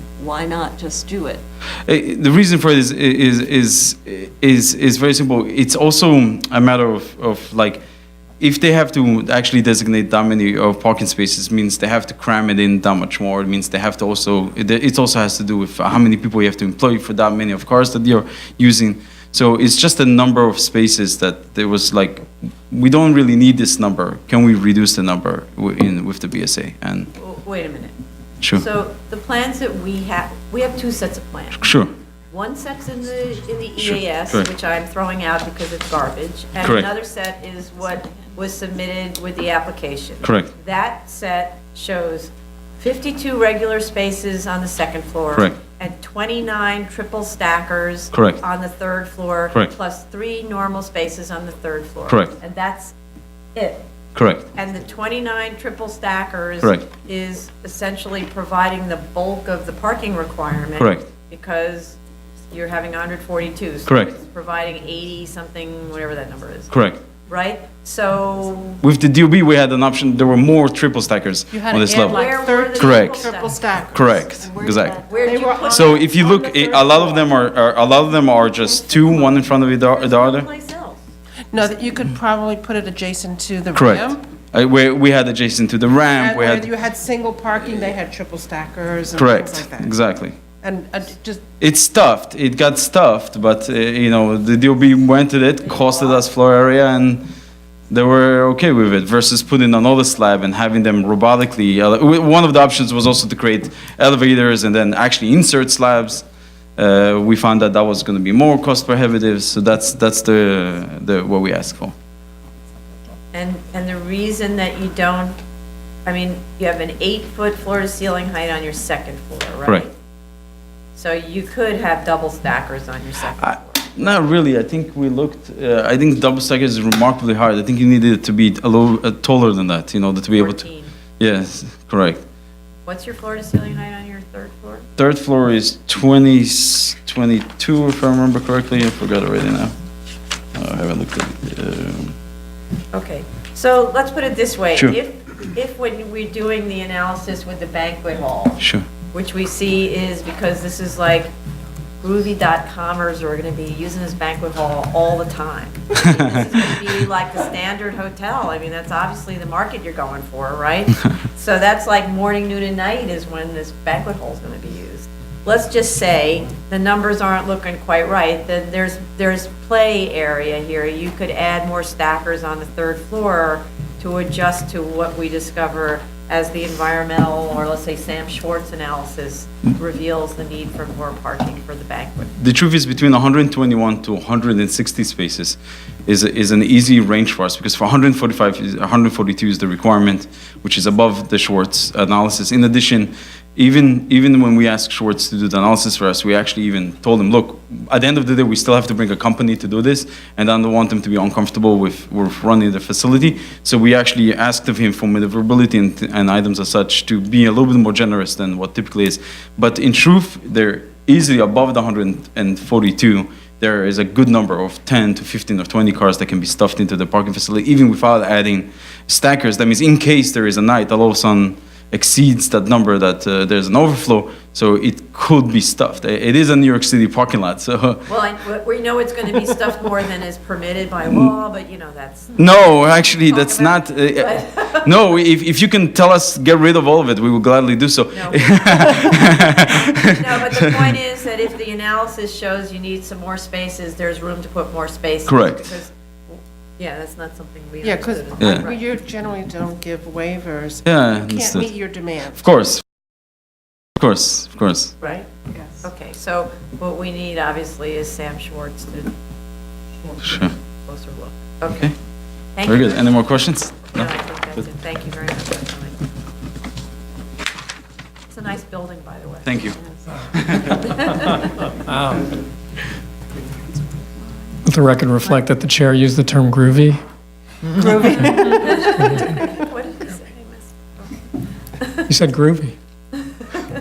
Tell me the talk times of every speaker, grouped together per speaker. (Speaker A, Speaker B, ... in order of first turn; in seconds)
Speaker A: 0.2-1.4, 38.0-38.3, 74.3-77.3, 78.5-78.9
Speaker B: 1.9-7.8, 8.4-27.1, 31.6-31.9, 33.8-34.5, 36.6-36.9, 48.1-48.4, 54.1-54.4, 60.8-61.0, 66.7-67.0, 68.8-73.3, 73.9-75.0, 75.6-80.5, 83.7-86.7, 89.1-90.4, 91.6-97.2, 97.9-106.2, 106.8-111.9, 123.4-130.6, 131.2-132.2, 135.0-139.7, 140.5-142.1, 182.4-228.0, 232.4-240.8, 245.3-245.7, 248.4-248.6, 250.8-251.7, 252.3-252.8, 254.0-254.9, 260.2-260.5, 262.6-264.0, 269.4-269.8, 270.3-271.0
Speaker C: 27.1-27.9, 28.5-31.8, 32.3-52.9, 53.5-53.8, 54.5-62.0, 62.5-66.7, 67.3-68.8, 71.9-73.7, 75.1-76.0, 79.0-81.0, 95.7-96.2, 113.3-115.4, 116.0-119.9, 120.9-124.2, 130.3-130.9, 132.8-134.8, 142.9-151.3, 152.0-182.3, 228.1-234.9, 238.1-248.8, 255.0-255.3, 255.8-259.1, 260.9-261.9, 262.5-266.0, 268.3-271.5, 277.8-281.2
Speaker D: 71.5-74.3, 75.2-76.8, 81.5-84.2, 86.1-89.9, 90.6-91.4, 247.8-252.4, 277.8-278.9
Speaker E: 274.6-277.0, 278.0-278.5, 282.1-282.7